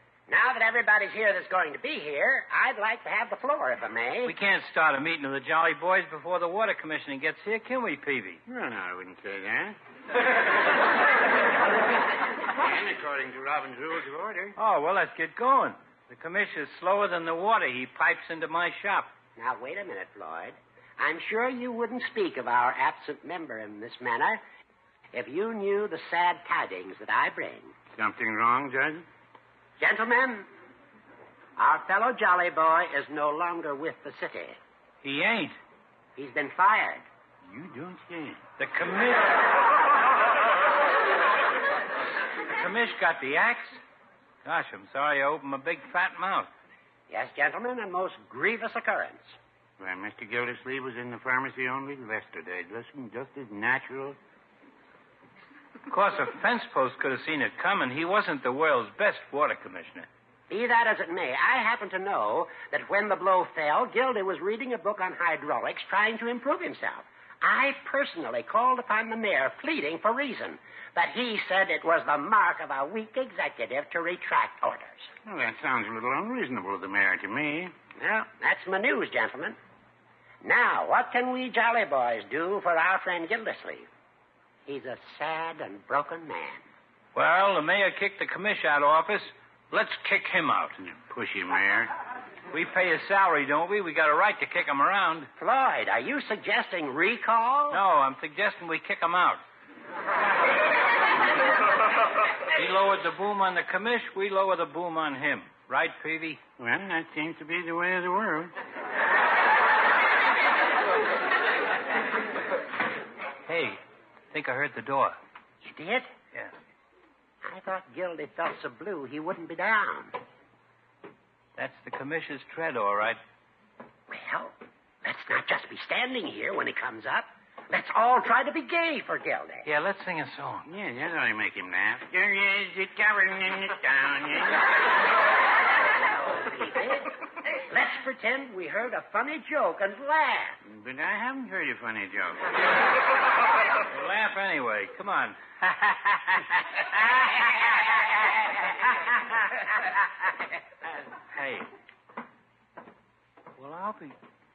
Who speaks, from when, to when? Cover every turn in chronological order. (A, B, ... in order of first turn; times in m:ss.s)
0:00.3-0:04.4 A
0:04.2-0:08.4 B
0:08.5-0:09.8 C
0:12.6-0:14.6 C
0:14.6-0:19.1 B
0:19.4-0:24.4 A
0:25.1-0:27.8 A
0:28.0-0:29.1 C
0:29.8-0:30.5 A
0:31.6-0:34.6 A
0:35.0-0:35.6 B
0:36.2-0:37.0 A
0:37.4-0:38.4 C
0:38.6-0:39.4 B
0:42.5-0:43.8 B
0:44.4-0:46.5 B
0:47.1-0:49.4 A
0:49.8-0:54.2 C
0:55.9-1:00.1 B
1:00.5-1:15.1 A
1:15.2-1:17.8 C
1:18.0-1:19.6 A
1:20.4-1:23.9 A
1:24.7-1:26.6 A
1:27.2-1:30.8 B
1:30.8-1:31.9 C
1:32.5-1:35.3 B
1:35.4-1:37.8 A
1:37.7-1:39.4 B
1:42.5-1:46.4 B
1:46.6-1:48.5 C
1:53.5-1:53.8 B
1:54.3-1:55.2 B
1:55.6-1:56.1 A
1:57.4-2:00.2 A
2:01.6-2:03.2 B
2:04.1-2:09.7 A
2:09.7-2:10.7 B
2:10.7-2:14.6 C
2:16.0-2:20.6 A
2:20.6-2:22.4 C
2:23.9-2:28.0 B
2:31.3-2:31.7 B
2:33.6-2:34.2 B